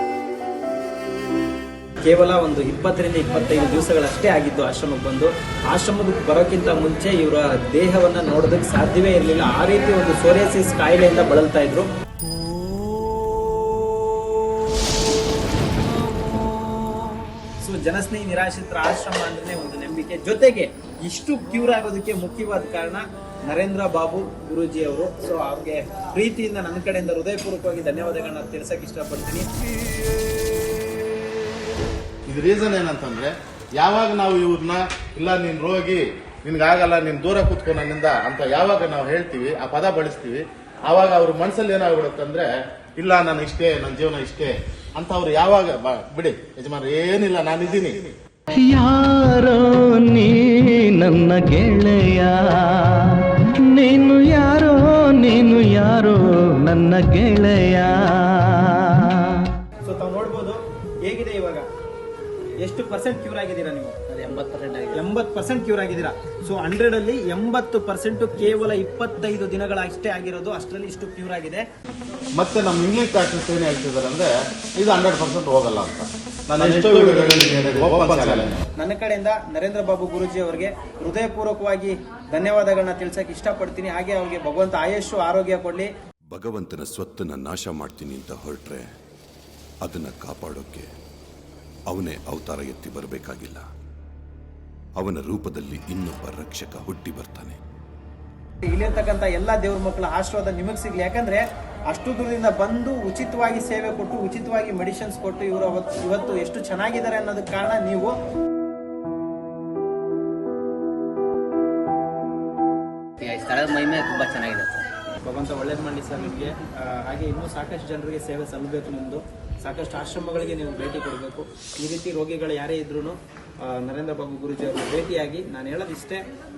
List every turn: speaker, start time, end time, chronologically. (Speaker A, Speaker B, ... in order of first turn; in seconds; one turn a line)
Speaker A: 2.0-11.9
Speaker A: 17.6-29.5
Speaker B: 32.3-48.1
Speaker C: 48.5-59.5
Speaker A: 59.8-61.7
Speaker A: 62.6-64.1
Speaker D: 64.1-65.0
Speaker A: 64.9-71.7
Speaker B: 72.4-78.6
Speaker A: 78.8-85.9
Speaker E: 86.3-88.9
Speaker E: 89.8-90.9
Speaker E: 91.9-93.6
Speaker E: 95.0-97.6
Speaker A: 98.6-108.1
Speaker D: 113.2-114.8
Speaker A: 115.2-126.2